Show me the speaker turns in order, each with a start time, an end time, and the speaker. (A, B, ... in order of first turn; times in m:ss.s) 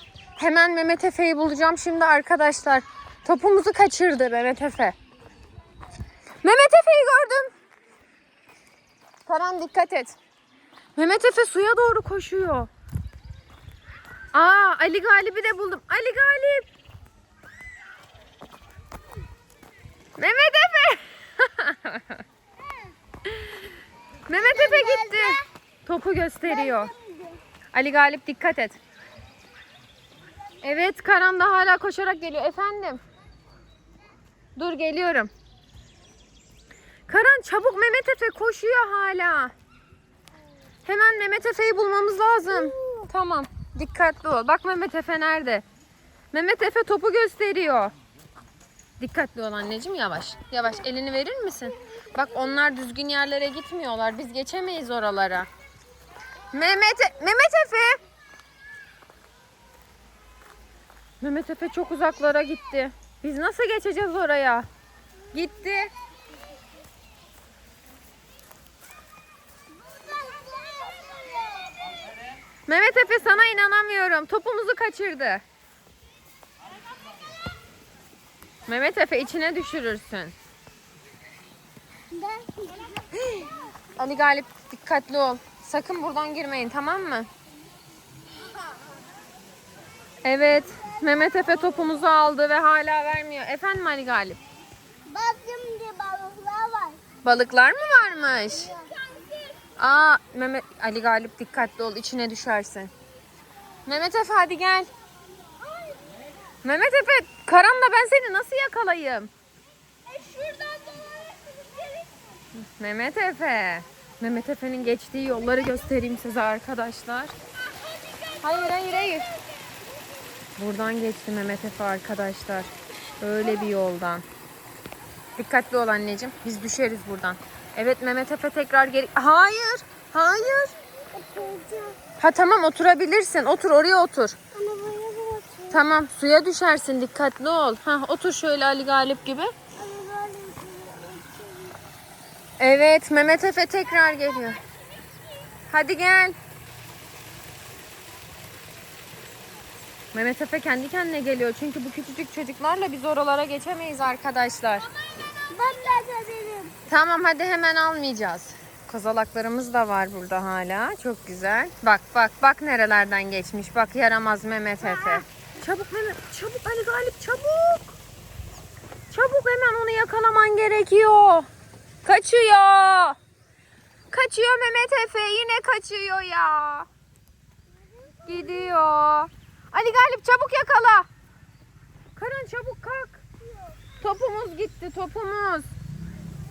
0:00.4-0:05.0 A
0:06.4-0:07.5 A
0:09.2-0:10.2 A
0:11.0-0:12.7 A
0:14.3-0:16.7 A
0:20.2-0:22.2 A
0:23.3-0:23.6 A
0:24.3-0:26.9 A
0:24.4-0:25.4 B
0:26.5-0:27.4 B
0:27.7-0:28.8 A
0:30.6-0:33.0 A
0:34.6-0:35.3 A
0:37.1-0:39.5 A
0:40.8-0:45.6 A
0:42.6-0:43.0 B
0:46.3-0:47.9 A
0:49.0-0:55.5 A
0:56.5-0:58.0 A
1:01.2-1:04.7 A
1:05.3-1:05.9 A
1:09.9-1:12.0 B
1:12.7-1:15.4 A
1:18.7-1:20.3 A
1:22.1-1:23.5 B
1:24.0-1:27.3 A
1:30.2-1:34.4 A
1:35.0-1:37.0 B
1:37.2-1:38.7 A
1:38.5-1:39.5 B
1:39.8-1:42.9 A
1:43.8-1:44.9 A
1:45.6-1:46.0 B
1:46.6-1:49.3 A
1:50.1-1:52.1 B
1:52.6-1:57.3 A
1:57.8-1:58.4 B
1:58.4-1:59.3 A
2:00.6-2:04.2 A
2:05.4-2:10.7 A
2:11.1-2:12.0 B
2:12.2-2:14.4 A
2:14.5-2:15.8 B
2:15.7-2:19.5 A
2:19.8-2:21.8 B
2:22.6-2:24.6 A
2:25.7-2:26.4 A
2:30.1-2:34.9 A
2:35.3-2:36.8 B
2:36.9-2:48.0 A
2:49.1-2:51.5 A
2:52.0-2:53.2 A
2:54.1-2:56.9 A
2:58.0-2:58.7 B
2:58.2-3:01.1 A
3:02.2-3:03.2 A
3:04.0-3:05.7 A